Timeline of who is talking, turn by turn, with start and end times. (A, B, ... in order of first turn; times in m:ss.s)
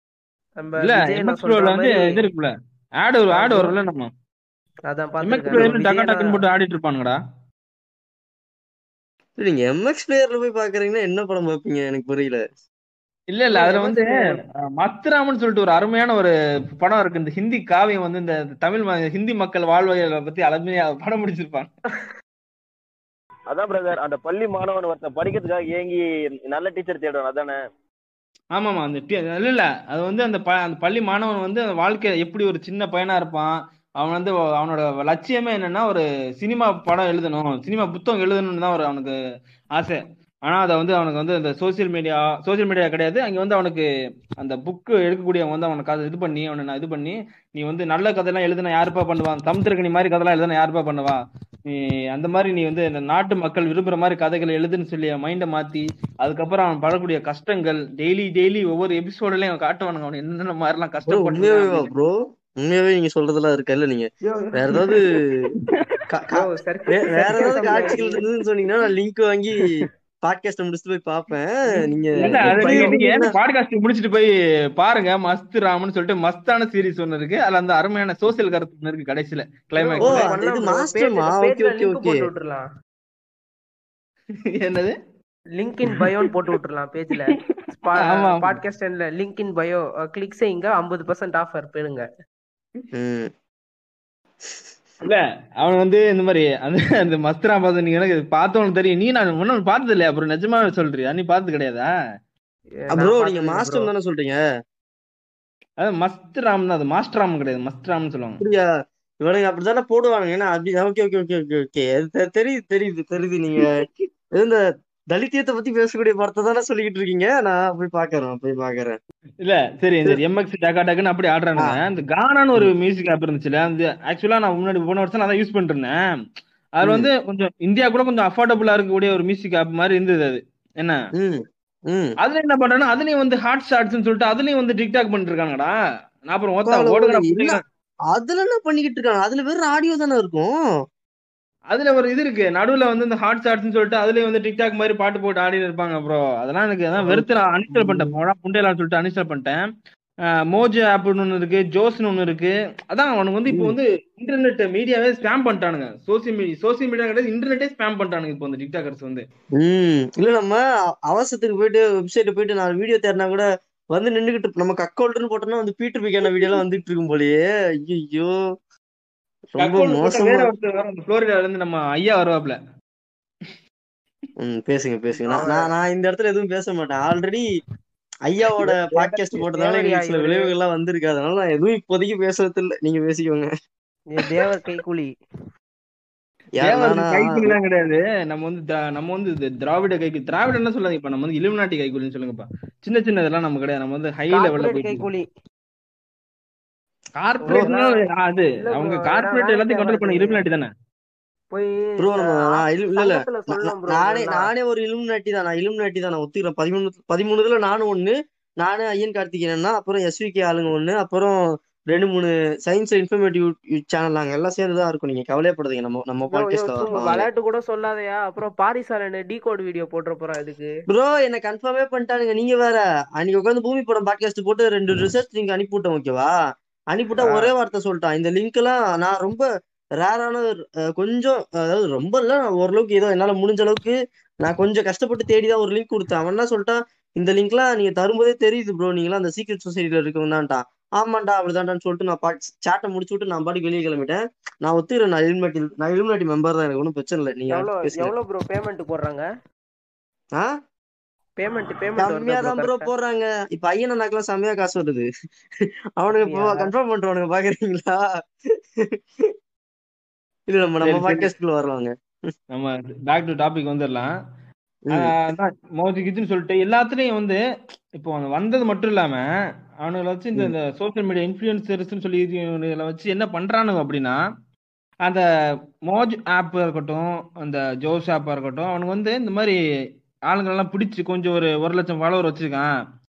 0:00.6-0:02.2 A
0:00.8-0:04.1 B
0:03.3-0:03.7 A
0:04.9-0:06.4 A
0:05.2-0:07.2 B
0:09.4-0:12.4 C
0:13.3-0:14.1 B
0:13.5-0:14.4 A
0:14.6-0:21.7 B
0:23.5-0:27.6 D
0:28.5-0:39.1 B
0:39.8-0:43.8 B
0:44.4-1:02.0 B
1:01.1-1:05.5 C
1:04.3-1:04.9 A
1:06.1-1:06.4 C
1:06.3-1:08.2 A
1:06.9-1:13.3 C
1:12.1-1:13.0 A
1:12.2-1:20.3 B
1:19.8-1:22.6 A
1:20.0-1:22.3 C
1:24.6-1:25.0 B
1:25.6-1:32.0 A
1:28.0-1:28.5 B
1:33.0-1:33.3 C
1:35.0-1:41.9 B
1:42.9-1:43.9 A
1:42.9-1:44.4 C
1:45.8-1:48.4 B
1:48.4-1:48.6 C
1:49.2-1:54.6 C
1:55.1-1:59.0 C
1:59.4-2:05.9 B
2:06.8-2:11.0 B
2:06.8-2:07.1 C
2:11.2-2:12.1 C
2:12.2-2:15.7 B
2:16.3-2:17.6 B
2:16.7-2:17.6 C
2:18.1-2:20.5 C
2:21.7-2:29.6 B
2:27.0-2:28.1 C
2:30.5-2:39.2 B
2:39.6-2:48.3 C
2:49.5-2:50.5 C
2:49.6-2:52.6 B
2:54.4-2:57.4 C
2:55.2-2:55.7 A
2:58.3-3:03.5 C
2:58.7-3:00.5 A
3:04.1-3:05.1 A
3:06.6-3:07.5 C
3:06.6-3:15.0 B
3:14.3-3:15.3 A
3:17.2-3:20.7 B
3:17.4-3:18.0 A
3:18.5-3:20.4 A
3:21.5-3:24.5 A
3:22.0-3:31.4 C
3:31.9-3:37.2 C
3:36.3-3:40.7 A
3:40.9-3:46.3 C
3:46.9-3:49.4 C
3:47.2-3:47.5 A
3:50.0-4:08.1 C
4:07.5-4:09.2 A
4:11.4-4:12.9 A
4:12.0-4:15.1 C
4:16.0-4:19.0 C
4:16.1-4:16.7 A
4:20.5-4:21.9 C
4:20.8-4:21.3 B
4:22.5-4:24.1 B
4:24.9-4:27.4 B
4:27.9-4:29.2 B
4:29.8-4:34.2 B
4:35.9-4:39.6 B
4:40.3-4:42.6 B